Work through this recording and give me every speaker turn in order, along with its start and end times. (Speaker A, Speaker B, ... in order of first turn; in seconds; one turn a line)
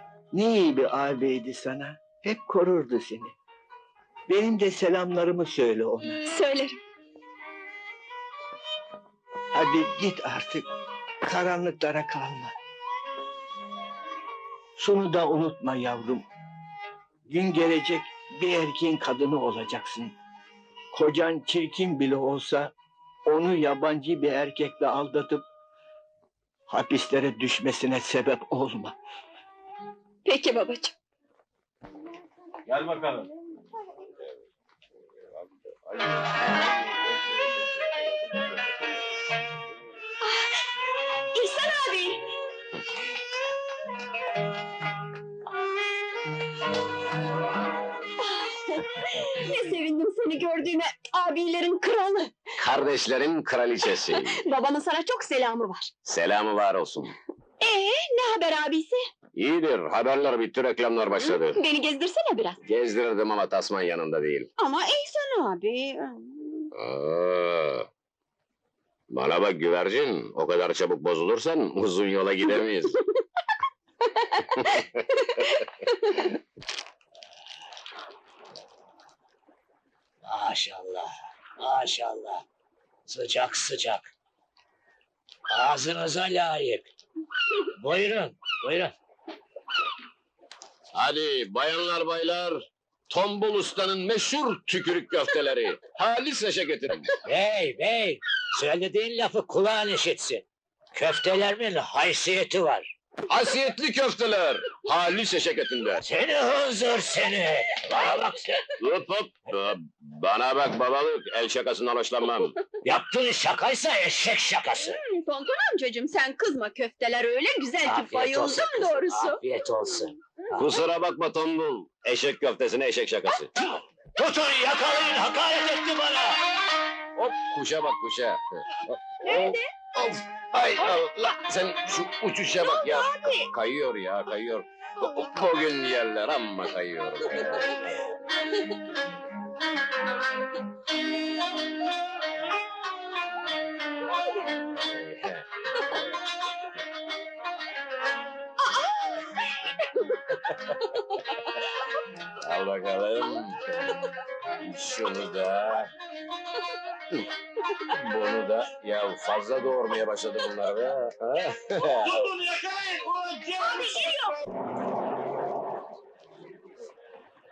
Speaker A: 0.3-3.4
Speaker A: 4.3-6.2
Speaker B: 6.3-6.8
Speaker A: 9.5-10.7
Speaker A: 11.2-12.5
Speaker A: 14.8-16.2
Speaker A: 17.3-20.1
Speaker A: 20.9-22.7
Speaker A: 23.2-25.4
Speaker A: 26.7-28.9
Speaker B: 30.2-30.9
Speaker C: 32.7-33.0
Speaker B: 40.2-40.6
Speaker B: 41.3-42.2
Speaker B: 48.2-52.4
Speaker C: 52.6-54.4
Speaker B: 54.2-55.9
Speaker C: 56.0-57.1
Speaker B: 57.6-59.0
Speaker C: 59.3-61.6
Speaker B: 61.2-62.6
Speaker C: 62.6-64.5
Speaker B: 64.6-66.7
Speaker C: 66.8-67.9
Speaker C: 69.1-73.0
Speaker B: 74.2-76.3
Speaker C: 74.5-75.4
Speaker D: 80.2-82.4
Speaker D: 83.1-84.1
Speaker D: 85.5-86.9
Speaker D: 87.8-88.9
Speaker C: 90.9-97.2
Speaker D: 97.2-102.9
Speaker C: 103.3-106.0
Speaker D: 106.0-108.7
Speaker C: 108.8-112.6
Speaker D: 112.8-115.0
Speaker B: 114.8-119.4
Speaker D: 117.8-120.1
Speaker C: 120.5-123.5
Speaker D: 124.2-126.4
Speaker C: 127.2-138.1
Speaker B: 129.2-129.6
Speaker B: 132.6-133.5
Speaker C: 144.8-146.0
Speaker C: 152.4-153.9
Speaker C: 154.6-155.9
Speaker C: 157.9-162.3
Speaker E: 162.1-164.1
Speaker B: 163.8-164.3